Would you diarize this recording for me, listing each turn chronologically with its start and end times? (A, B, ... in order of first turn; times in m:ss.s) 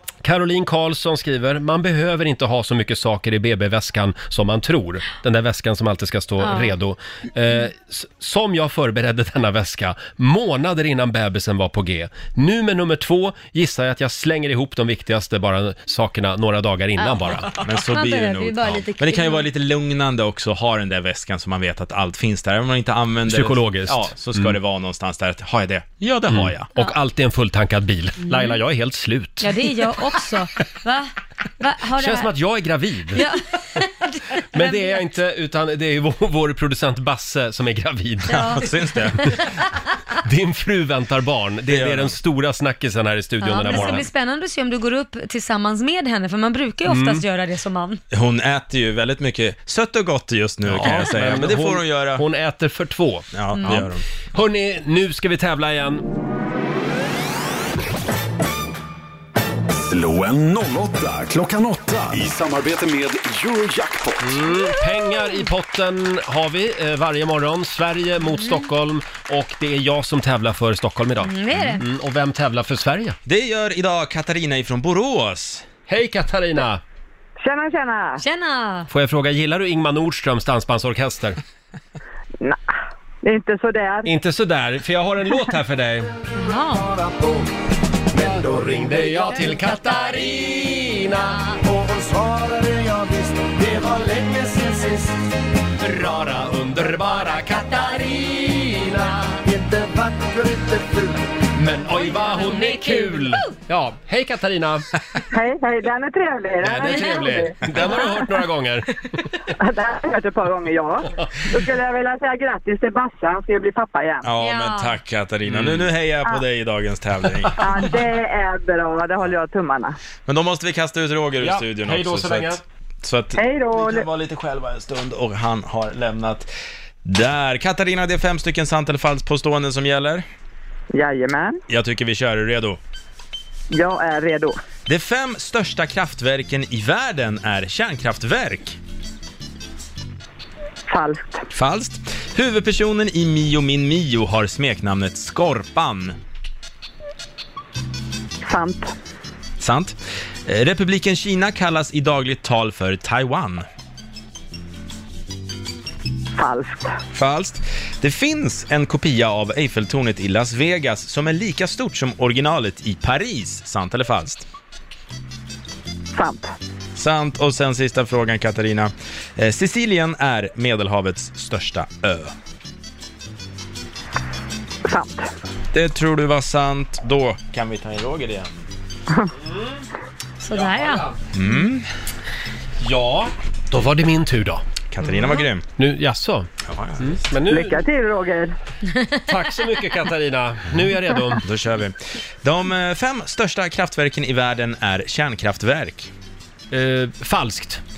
0:00.2-0:17.5 A
0:06.4-0:06.7 B
0:17.2-0:19.4 B
0:17.6-0:26.7 C
0:23.3-0:24.6 A
0:26.3-0:29.5 A
0:28.3-0:28.5 B
0:29.4-0:31.1 B
0:31.6-0:32.3 B
0:32.0-0:33.2 A
0:33.1-0:33.4 B
0:34.5-0:38.5 A
0:34.6-0:34.9 B
0:38.3-0:39.3 C
0:40.2-0:44.1 A
0:41.7-0:42.1 C
0:43.4-0:48.0 B
0:46.8-0:47.2 A
0:48.1-0:52.2 C
0:50.7-0:56.0 A
0:53.3-0:54.0 C
0:59.9-1:04.3 D
1:04.2-1:13.2 A
1:11.2-1:11.8 B
1:13.2-1:15.6 C
1:15.9-1:16.8 A
1:17.4-1:18.2 E
1:18.2-1:18.9 B
1:18.9-1:21.4 A
1:23.2-1:24.1 E
1:24.0-1:26.1 A
1:26.4-1:26.8 B
1:26.7-1:27.5 F
1:28.1-1:29.0 F
1:28.3-1:31.4 A
1:31.6-1:35.2 F
1:35.8-1:39.4 A
1:39.4-1:41.2 F
1:41.6-1:44.9 A
1:42.1-1:43.4 B
1:45.3-1:47.6 E
1:46.6-1:49.2 A
1:49.6-1:54.3 E
1:54.2-1:57.6 C
1:54.4-1:54.8 B
1:55.5-1:55.8 A
1:57.6-2:00.0 E
2:00.3-2:06.5 C
2:01.4-2:02.6 A
2:03.4-2:04.1 E
2:07.0-2:10.2 C
2:10.9-2:11.6 E
2:11.7-2:12.8 C
2:13.7-2:14.6 E
2:14.9-2:18.8 C
2:20.9-2:21.4 E
2:21.5-2:26.1 C
2:28.4-2:28.9 E
2:29.6-2:33.6 C
2:36.4-2:37.0 E
2:37.1-2:44.4 C
2:46.1-2:46.5 E
2:47.0-2:52.3 C
2:54.8-2:55.3 E
2:55.7-2:58.6 C
2:59.4-2:59.8 A
3:00.4-3:01.0 B
3:00.5-3:01.2 A
3:01.3-3:01.8 C
3:02.8-3:04.6 A
3:04.9-3:05.6 C
3:05.8-3:07.8 A
3:06.6-3:07.2 C
3:07.5-3:08.5 E
3:09.3-3:11.4 A
3:11.4-3:16.1 C
3:16.7-3:17.8 A